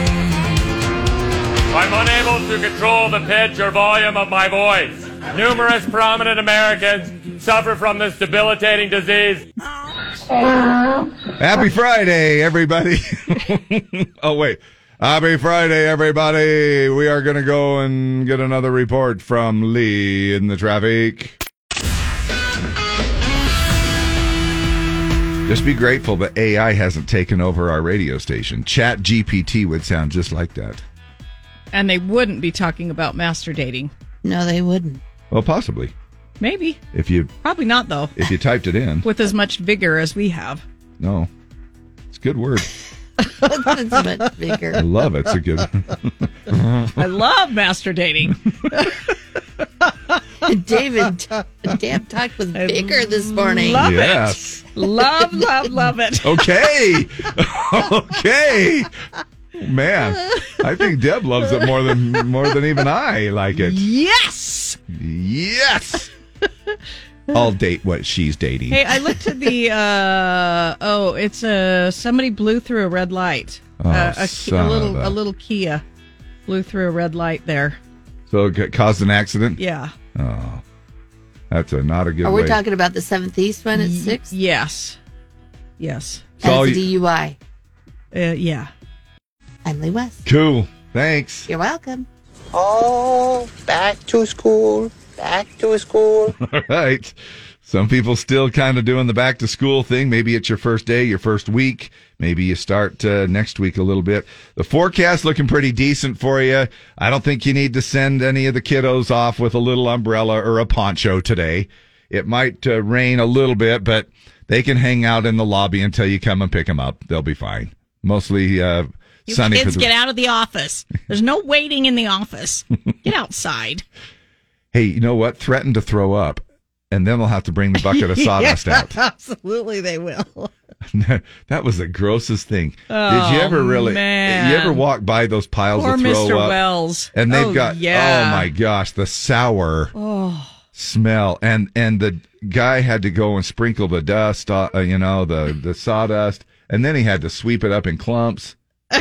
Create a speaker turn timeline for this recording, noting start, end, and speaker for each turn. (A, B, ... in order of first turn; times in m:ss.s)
0:01.7-0:09.4 A
0:11.4-0:21.4 B
0:25.4-0:30.8 B
0:31.7-0:33.9 C
0:34.2-0:35.0 D
0:35.3-0:35.9 B
0:36.4-0:36.8 C
0:36.9-0:37.3 B
0:37.4-0:38.1 C
0:38.2-0:39.0 B
0:39.0-0:40.6 C
0:41.0-0:41.3 B
0:42.1-0:42.7 B
0:43.5-0:44.8 D
0:44.8-0:46.9 B
0:47.0-0:48.4 C
0:50.4-0:53.9 D
0:52.5-0:56.4 C
0:53.8-0:54.6 B
0:56.2-0:58.9 B
0:59.6-1:03.8 B
1:03.6-1:04.8 C
1:04.9-1:06.1 B
1:07.3-1:08.8 B
1:08.7-1:15.8 C
1:13.8-1:15.2 B
1:16.5-1:17.8 C
1:18.3-1:19.6 B
1:19.6-1:19.9 C
1:20.1-1:20.6 B
1:21.5-1:22.6 B
1:22.2-1:24.3 D
1:23.7-1:25.0 C
1:25.8-1:26.2 C
1:26.4-1:26.8 B
1:26.4-1:27.4 D
1:28.1-1:28.7 C
1:29.6-1:30.2 D
1:30.2-1:31.5 B
1:31.5-1:32.1 D
1:32.5-1:36.3 E
1:36.4-1:59.9 B
1:59.3-2:03.8 C
2:04.7-2:09.0 B
2:07.9-2:10.5 C
2:10.9-2:16.6 B
2:12.9-2:14.8 C
2:15.8-2:18.5 C
2:17.1-2:19.9 B
2:19.9-2:20.5 C
2:20.7-2:28.6 B